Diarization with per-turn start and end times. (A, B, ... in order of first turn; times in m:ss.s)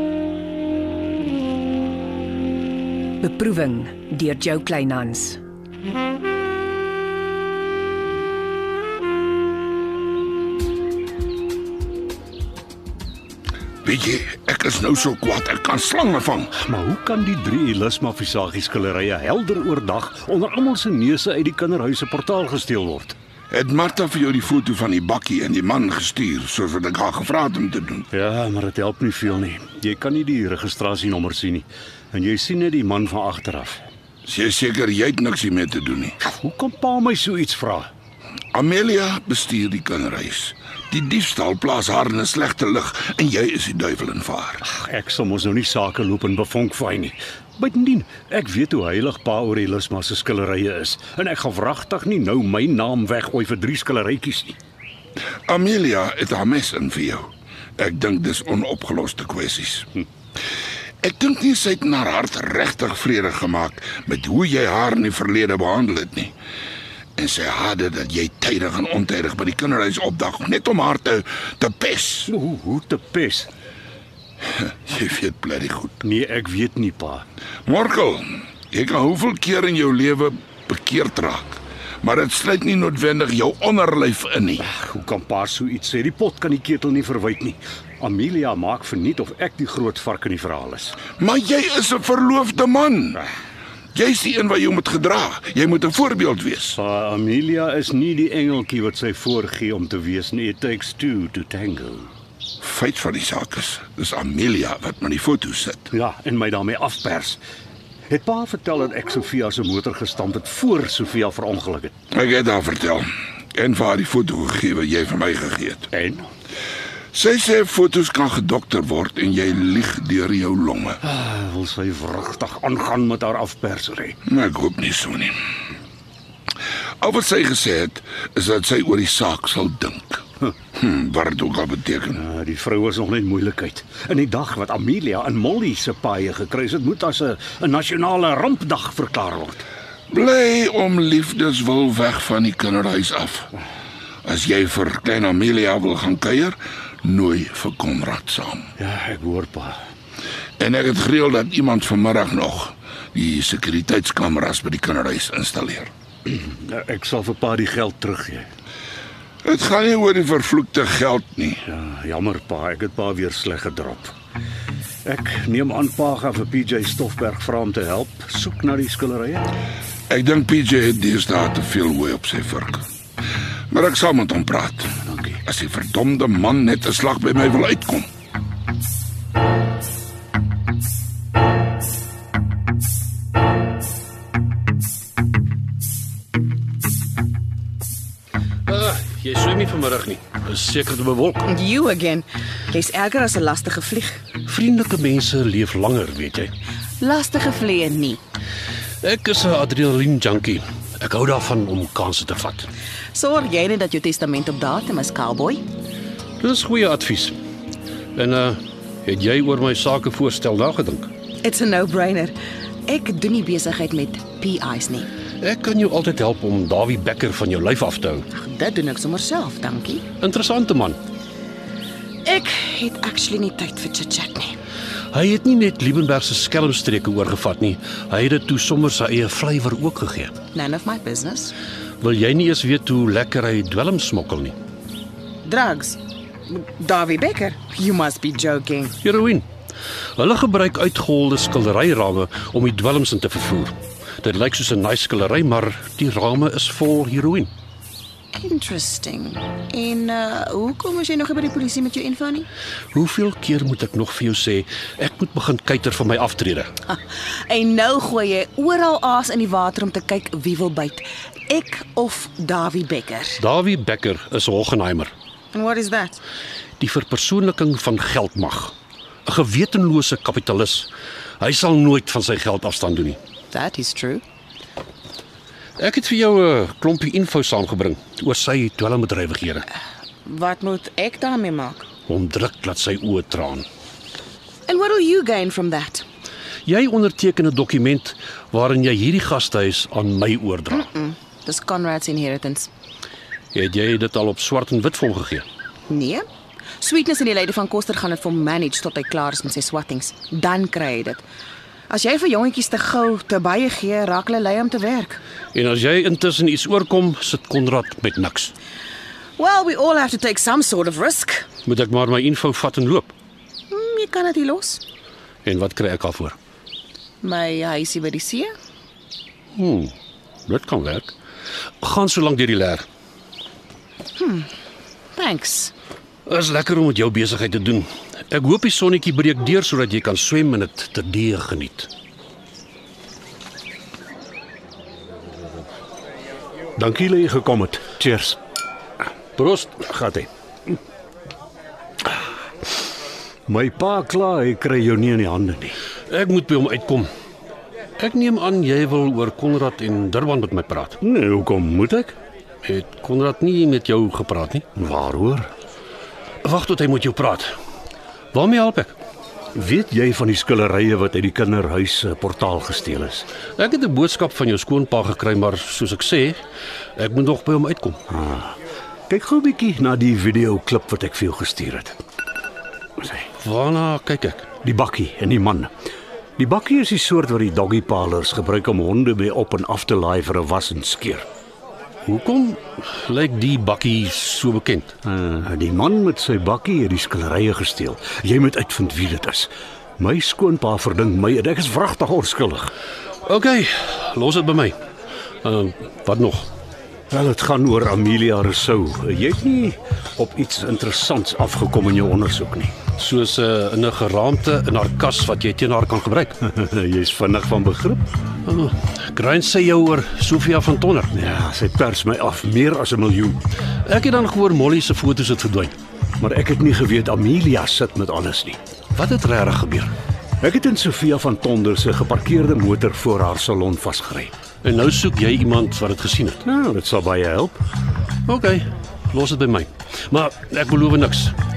0:03.2-0:05.4 A
0:13.8-0:16.5 B
0:16.5-0:23.2 C
0:23.5-0:28.1 B
0:28.1-0:33.8 C
0:34.2-0:36.2 B
0:36.2-0:37.9 C
0:38.5-0:44.6 B
0:44.6-0:54.6 C
0:55.5-0:59.9 B
1:01.0-1:06.3 B
1:07.2-1:12.3 B
1:12.3-1:13.5 C
1:14.5-1:16.0 B
1:16.0-1:17.2 C
1:17.6-1:24.7 B
1:24.7-1:31.0 C
1:31.1-1:33.2 B
1:33.9-1:36.8 B
1:36.7-1:42.1 C
1:42.6-1:45.9 B
1:45.9-1:47.4 C
1:48.1-1:52.0 C
1:52.1-1:55.9 B
1:55.9-1:56.3 C
1:57.1-2:01.0 B
2:01.0-2:04.2 C
2:04.3-2:05.4 B
2:07.0-2:12.2 B
2:12.1-2:19.7 C
2:20.1-2:23.5 B
2:24.2-2:28.7 B
2:28.8-2:29.8 C
2:30.6-2:35.9 B
2:36.3-2:38.5 C
2:39.4-2:41.6 B
2:41.6-2:44.1 C
2:45.0-2:49.5 C
2:50.1-2:52.8 B
2:53.7-2:58.1 B
3:08.7-3:11.5 D
3:11.4-3:14.2 E
3:14.5-3:16.5 D
3:17.0-3:18.2 E
3:19.0-3:22.7 D
3:23.1-3:25.6 E
3:26.4-3:27.4 D
3:28.2-3:31.1 D
3:31.4-3:35.1 E
3:35.4-3:38.3 D
3:38.3-3:40.0 E
3:40.2-3:41.0 D
3:42.2-3:44.6 E
3:45.1-3:50.4 D
3:50.5-3:51.5 E
3:52.0-3:54.6 D
3:55.4-3:59.0 E
3:59.0-3:59.5 D
4:00.2-4:07.5 D
4:08.4-4:12.5 E
4:12.9-4:16.7 D
4:16.9-4:23.4 E
4:23.4-4:25.1 D
4:25.5-4:26.2 E
4:26.8-4:33.2 D
4:33.5-4:34.2 E
4:35.8-4:39.7 D
4:40.2-4:41.9 E
4:42.1-4:43.7 D
4:44.7-4:46.0 E
4:46.7-4:50.9 D
4:50.7-4:52.7 E
4:53.5-4:55.5 D
4:55.9-4:56.2 E
4:56.8-5:01.2 E
5:01.9-5:05.2 E
5:05.5-5:08.5 D
5:09.4-5:11.5 E
5:11.6-5:13.1 D
5:13.7-5:14.8 E
5:15.5-5:16.4 D
5:17.2-5:18.5 E
5:19.6-5:19.9 D
5:20.5-5:21.1 D
5:21.8-5:22.9 D
5:24.2-5:24.5 E
5:25.2-5:25.7 E
5:26.3-5:31.9 D
5:36.8-5:38.4 C
5:39.4-5:39.9 D
5:39.9-5:40.3 C
5:43.5-5:45.8 C
5:46.1-5:47.1 D
5:48.0-5:51.0 D
5:51.0-5:52.2 C
5:52.6-5:54.7 D
5:54.8-5:55.5 C
5:56.4-5:57.5 D
5:58.3-5:59.0 D
5:59.5-6:03.3 C
6:03.4-6:06.4 D
6:07.0-6:08.0 D
6:08.1-6:08.6 C
6:09.1-6:12.0 C
6:13.2-6:14.6 D
6:14.6-6:15.7 C
6:16.4-6:21.3 C
6:22.1-6:25.0 D
6:25.0-6:32.7 C
6:33.3-6:34.8 D
6:35.4-6:36.5 D
6:37.1-6:42.8 C
6:42.9-6:46.4 D
6:46.4-6:48.1 C
6:48.4-6:51.2 D
6:51.1-6:53.4 C
6:53.8-6:55.8 D
6:56.2-6:58.6 C
6:58.9-6:59.9 D
7:00.4-7:04.3 C
7:04.6-7:06.4 D
7:06.4-7:07.6 C
7:08.3-7:11.4 D